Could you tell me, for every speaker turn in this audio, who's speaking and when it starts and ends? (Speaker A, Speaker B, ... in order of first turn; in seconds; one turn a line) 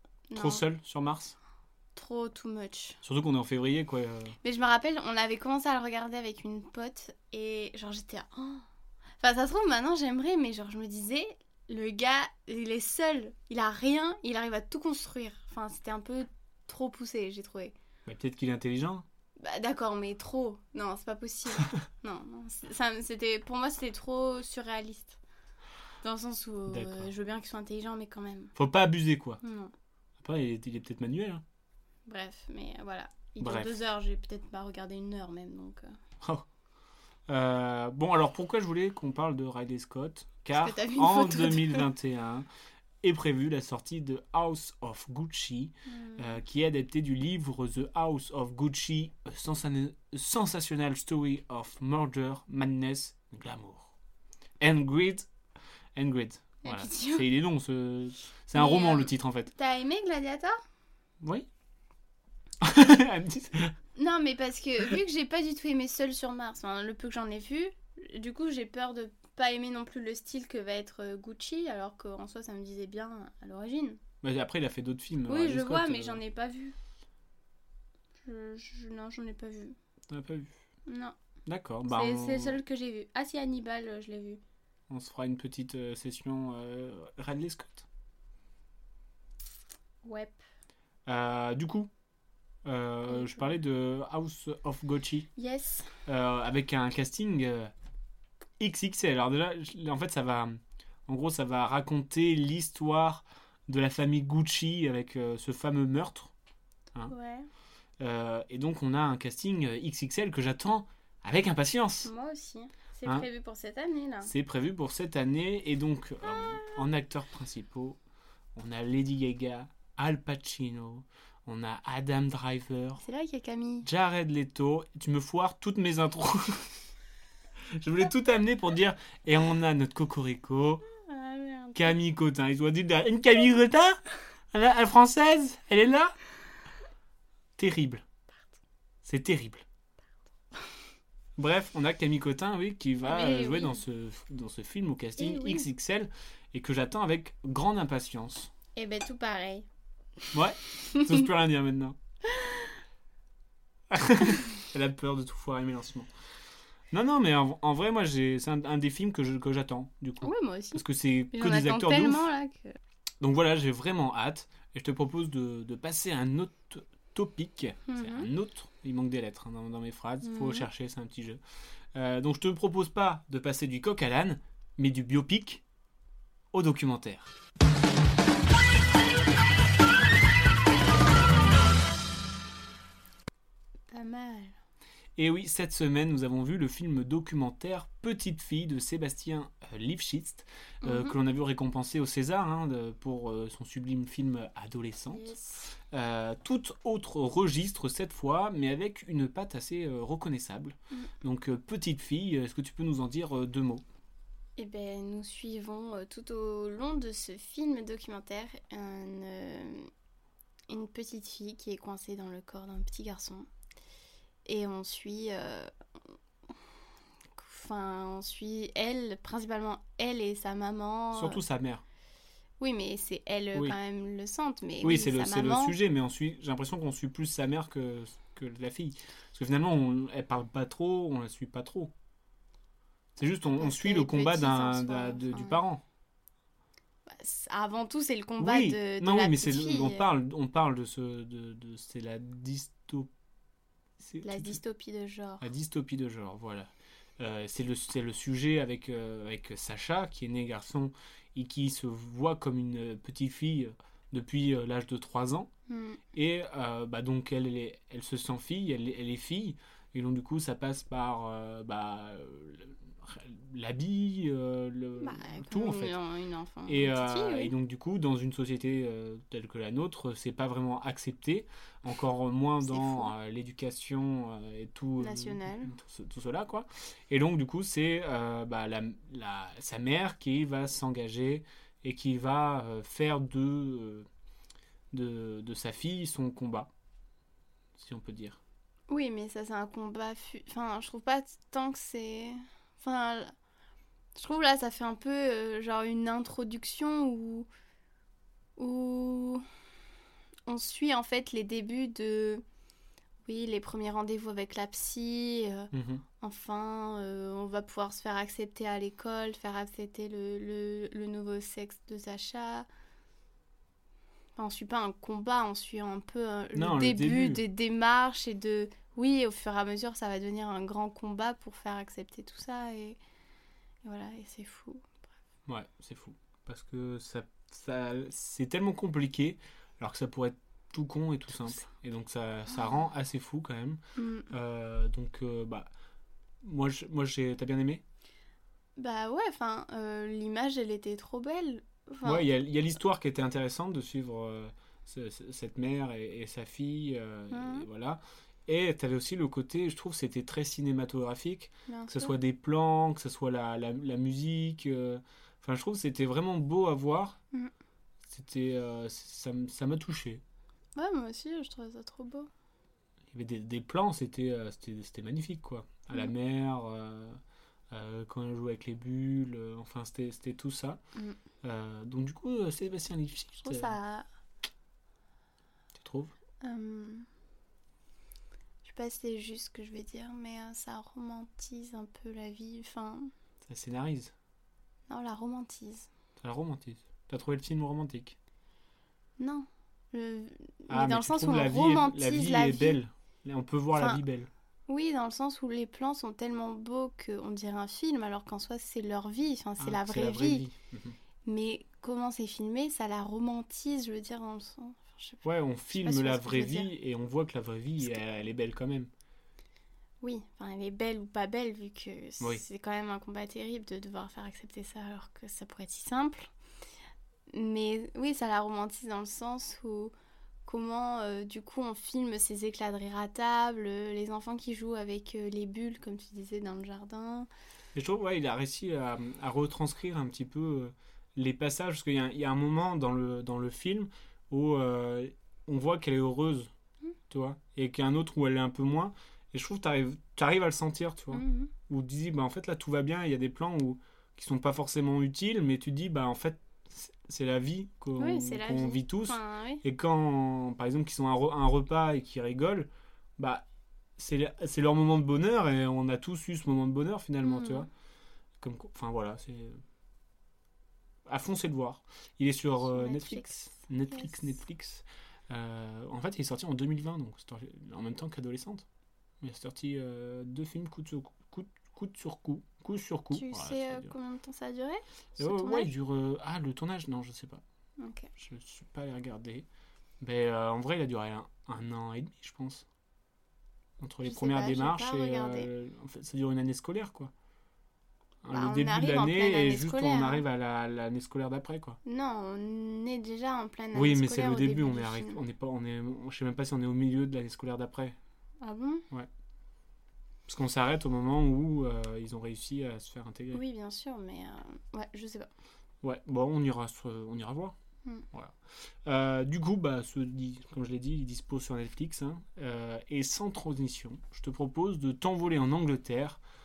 Speaker A: 0.3-0.6
Speaker B: 0.3-1.4
Speaker A: 1.9-3.0
Speaker B: 3.0-4.3
Speaker A: 4.4-8.6
Speaker A: 9.2-17.7
Speaker B: 18.1-19.0
Speaker A: 19.4-25.2
Speaker A: 26.0-28.5
Speaker B: 26.7-27.1
Speaker B: 28.5-29.4
Speaker A: 29.4-29.7
Speaker B: 30.2-31.4
Speaker A: 32.0-35.9
Speaker B: 33.4-33.8
Speaker B: 37.3-42.5
Speaker A: 40.5-41.8
Speaker B: 43.0-53.9
Speaker A: 45.9-46.4
Speaker B: 54.6-55.3
Speaker B: 56.0-59.5
Speaker A: 56.6-57.2
Speaker A: 58.5-60.6
Speaker B: 61.2-61.5
Speaker B: 62.6-63.7
Speaker A: 64.0-74.0
Speaker B: 74.2-76.2
Speaker A: 75.3-76.7
Speaker A: 78.2-79.7
Speaker B: 80.1-80.5
Speaker A: 80.9-81.1
Speaker B: 81.5-82.6
Speaker A: 81.9-84.4
Speaker B: 84.9-87.8
Speaker A: 90.0-90.4
Speaker B: 91.0-91.9
Speaker B: 92.6-95.3
Speaker A: 93.1-93.4
Speaker A: 95.3-95.9
Speaker B: 96.0-97.7
Speaker B: 98.6-106.3
Speaker A: 107.1-107.5
Speaker B: 108.0-112.1
Speaker A: 112.0-114.3
Speaker B: 114.2-118.0
Speaker B: 118.5-123.0
Speaker A: 123.0-123.9
Speaker B: 123.8-126.8
Speaker B: 127.7-130.8
Speaker A: 131.1-131.9
Speaker B: 131.7-134.0
Speaker B: 134.5-136.2
Speaker B: 137.6-138.0
Speaker B: 139.0-139.6
Speaker B: 141.4-148.5
Speaker A: 143.0-143.8
Speaker A: 145.2-145.6
Speaker A: 148.8-149.7
Speaker B: 150.3-151.9
Speaker A: 152.3-152.7
Speaker B: 153.9-156.1
Speaker B: 156.9-162.3
Speaker A: 160.2-162.8
Speaker B: 163.2-171.4
Speaker A: 167.9-168.3
Speaker A: 170.2-170.7
Speaker B: 171.9-175.6
Speaker B: 176.5-177.3
Speaker A: 183.9-184.5
Speaker B: 185.2-195.3
Speaker A: 190.8-191.1
Speaker A: 195.1-195.7
Speaker B: 195.9-203.8
Speaker A: 204.6-209.9
Speaker A: 210.7-213.5
Speaker A: 214.4-215.7
Speaker A: 217.4-221.4
Speaker B: 221.1-221.8
Speaker A: 222.6-225.8
Speaker B: 224.8-231.9
Speaker B: 233.2-235.8
Speaker A: 233.6-235.6
Speaker A: 237.1-240.1
Speaker B: 238.4-243.1
Speaker B: 244.0-244.6
Speaker A: 244.2-245.5
Speaker B: 245.4-255.5
Speaker A: 255.7-256.0
Speaker B: 256.1-265.9
Speaker A: 265.0-267.5
Speaker B: 266.7-284.1
Speaker A: 272.6-273.1
Speaker A: 275.0-275.7
Speaker B: 284.9-286.7
Speaker B: 287.8-288.4
Speaker A: 288.9-293.3
Speaker A: 294.1-297.5
Speaker A: 298.6-299.4
Speaker A: 300.5-302.4
Speaker A: 303.2-312.7
Speaker B: 305.7-306.0
Speaker A: 314.4-323.0
Speaker B: 316.5-317.4
Speaker A: 323.8-325.0
Speaker B: 325.5-335.7
Speaker A: 333.9-334.3
Speaker B: 336.4-337.8
Speaker A: 338.8-342.2
Speaker B: 342.0-357.2
Speaker A: 347.3-347.7
Speaker A: 351.7-352.1
Speaker B: 358.1-360.2
Speaker A: 360.8-362.3
Speaker B: 363.1-367.2
Speaker B: 367.7-370.8
Speaker B: 371.4-373.8
Speaker A: 373.4-374.1
Speaker B: 375.7-376.1
Speaker A: 376.4-377.1
Speaker A: 378.6-383.1
Speaker B: 383.4-384.1
Speaker A: 384.9-385.9
Speaker B: 386.2-388.1
Speaker A: 389.2-392.8
Speaker B: 390.7-394.3
Speaker A: 393.7-394.0
Speaker A: 394.7-400.4
Speaker B: 399.6-400.9
Speaker A: 401.2-406.7
Speaker B: 405.2-408.9
Speaker A: 410.0-416.3
Speaker A: 417.3-419.9
Speaker A: 420.4-427.3
Speaker B: 427.7-436.5
Speaker B: 437.1-453.4
Speaker A: 441.1-441.5
Speaker A: 448.0-449.6
Speaker B: 454.0-457.7
Speaker A: 457.2-457.7
Speaker B: 458.4-459.6
Speaker B: 461.1-468.6
Speaker A: 462.6-463.4
Speaker B: 469.2-473.9
Speaker A: 473.1-475.7
Speaker B: 475.2-477.4
Speaker A: 477.8-478.1
Speaker B: 478.2-479.5
Speaker B: 480.0-482.6
Speaker B: 483.8-487.1
Speaker A: 484.0-485.5
Speaker B: 488.2-491.8
Speaker A: 488.3-490.2
Speaker A: 491.8-495.2
Speaker B: 493.7-498.0
Speaker A: 498.4-498.9
Speaker B: 500.3-503.4
Speaker A: 503.3-505.3
Speaker B: 505.8-507.5
Speaker B: 508.1-516.2